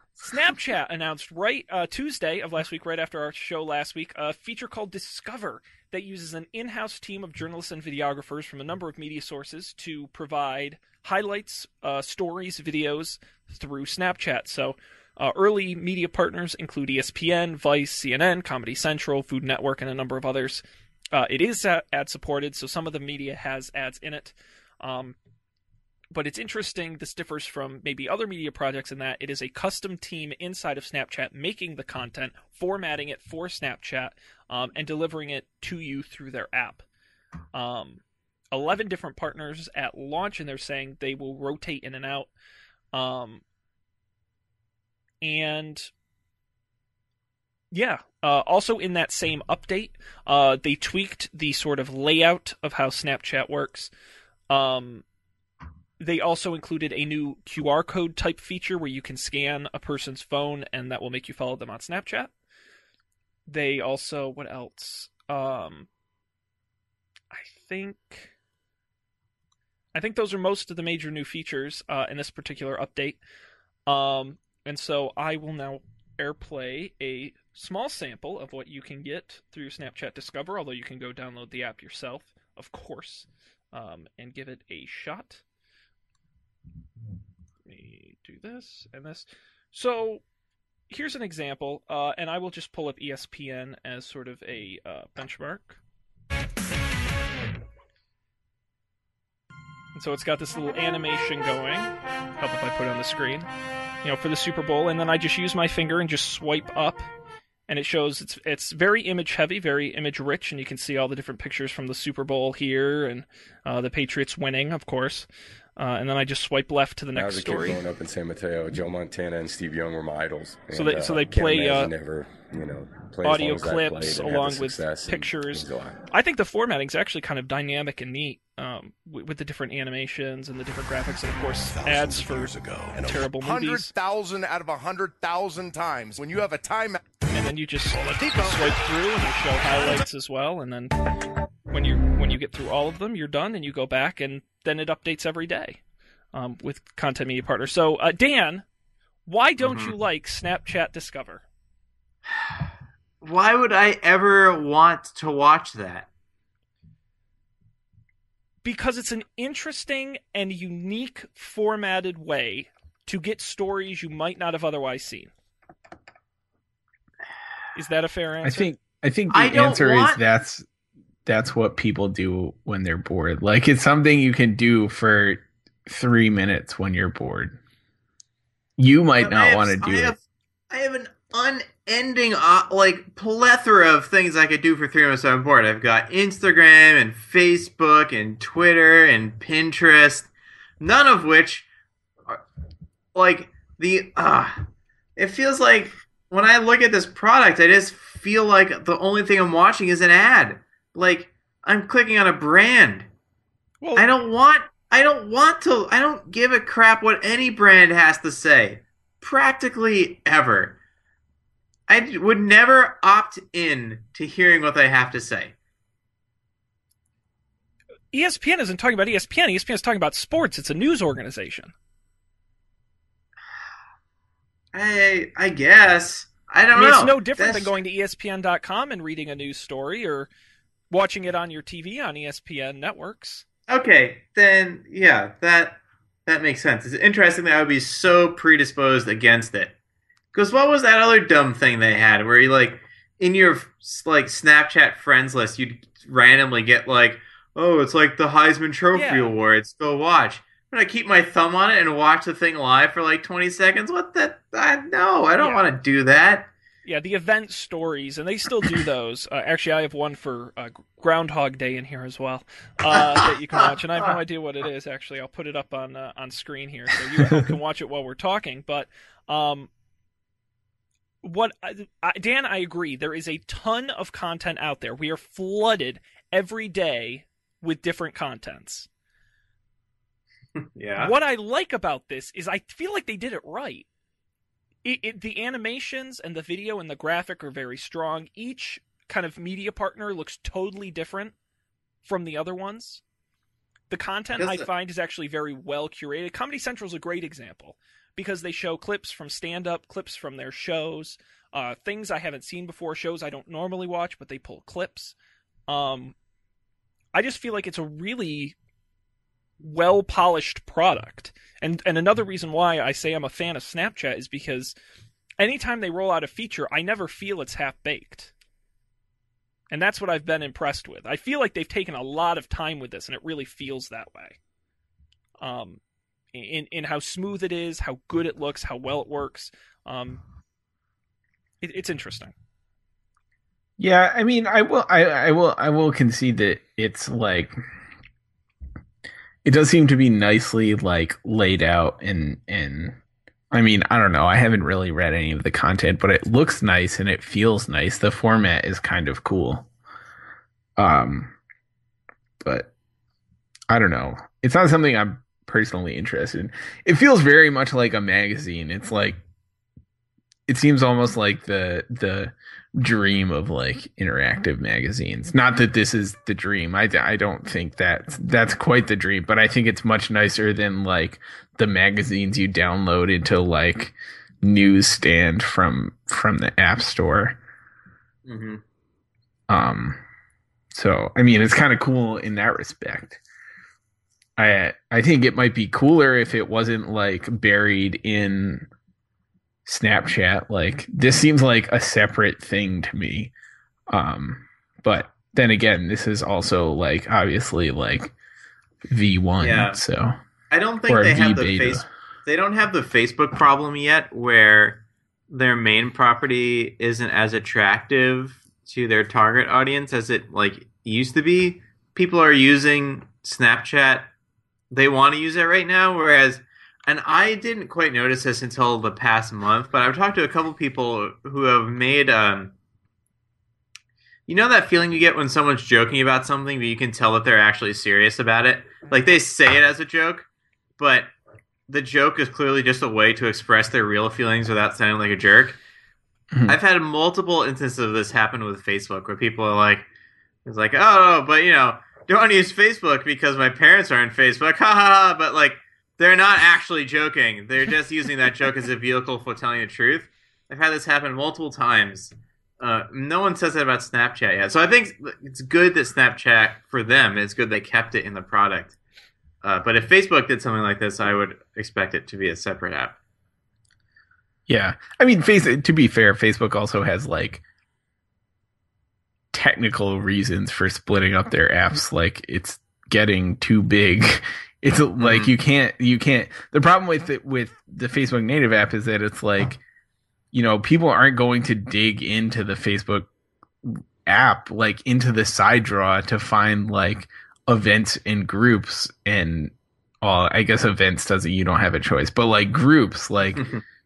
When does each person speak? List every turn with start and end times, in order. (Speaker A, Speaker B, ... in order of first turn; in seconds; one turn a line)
Speaker A: 0.2-25.1
Speaker A: 26.1-36.8
Speaker A: 37.5-38.0
Speaker A: 38.5-42.3
Speaker A: 42.9-43.4
Speaker A: 45.2-45.9
Speaker A: 47.7-53.9
Speaker A: 54.5-55.0
Speaker A: 56.0-62.3
Speaker A: 63.5-65.9
Speaker A: 67.3-68.3
Speaker A: 69.9-73.2
Speaker A: 73.9-85.4
Speaker A: 87.7-90.2
Speaker A: 90.9-95.8
Speaker A: 99.9-103.5
Speaker A: 104.0-107.1
Speaker A: 107.7-115.2
Speaker A: 115.8-117.8
Speaker B: 117.1-126.0
Speaker A: 120.7-121.9
Speaker A: 123.2-133.9
Speaker C: 131.7-137.1
Speaker A: 137.3-140.9
Speaker C: 137.9-138.8
Speaker A: 141.7-145.8
Speaker A: 146.3-148.6
Speaker A: 149.2-151.4
Speaker D: 149.6-149.9
Speaker D: 152.3-152.7
Speaker D: 153.2-156.1
Speaker A: 158.6-165.3
Speaker A: 167.7-168.7
Speaker E: 168.4-170.7
Speaker D: 169.3-170.2
Speaker E: 171.2-177.6
Speaker E: 178.8-180.2
Speaker D: 179.2-190.3
Speaker D: 190.8-191.7
Speaker D: 193.1-203.1
Speaker A: 203.8-204.1
Speaker D: 203.9-210.8
Speaker D: 211.9-215.5
Speaker A: 218.1-221.7
Speaker D: 224.7-227.7
Speaker A: 226.7-230.3
Speaker A: 230.9-233.4
Speaker D: 233.7-239.7
Speaker D: 240.3-256.5
Speaker A: 248.9-249.3
Speaker A: 255.4-255.7
Speaker A: 256.8-269.7
Speaker A: 271.2-278.9
Speaker D: 280.6-281.1
Speaker A: 281.0-283.9
Speaker A: 284.8-291.3
Speaker A: 292.0-293.0
Speaker A: 293.9-305.1
Speaker D: 294.4-294.7
Speaker A: 305.7-306.1
Speaker A: 307.1-308.5
Speaker A: 309.6-314.7
Speaker A: 315.4-318.3
Speaker A: 319.7-324.4
Speaker A: 325.4-325.8
Speaker A: 326.3-330.2
Speaker A: 331.6-332.3
Speaker E: 333.8-337.6
Speaker E: 339.4-343.0
Speaker E: 343.5-349.7
Speaker E: 350.8-351.3
Speaker E: 352.4-352.7
Speaker E: 353.7-359.2
Speaker E: 360.5-377.4
Speaker D: 378.2-378.6
Speaker E: 379.5-380.0
Speaker E: 380.7-383.2
Speaker E: 384.4-388.7
Speaker E: 389.6-393.3
Speaker E: 393.9-398.1
Speaker E: 398.9-400.1
Speaker D: 399.4-399.8
Speaker D: 400.5-414.1
Speaker E: 400.9-401.9
Speaker D: 414.7-422.5
Speaker D: 424.3-430.3
Speaker D: 430.8-431.1
Speaker D: 431.7-435.6
Speaker D: 436.5-439.9
Speaker D: 440.4-458.8
Speaker D: 459.4-462.9
Speaker E: 464.5-467.4
Speaker E: 469.3-479.6
Speaker D: 475.0-475.3
Speaker E: 480.3-483.1
Speaker E: 483.6-493.5
Speaker D: 493.4-493.6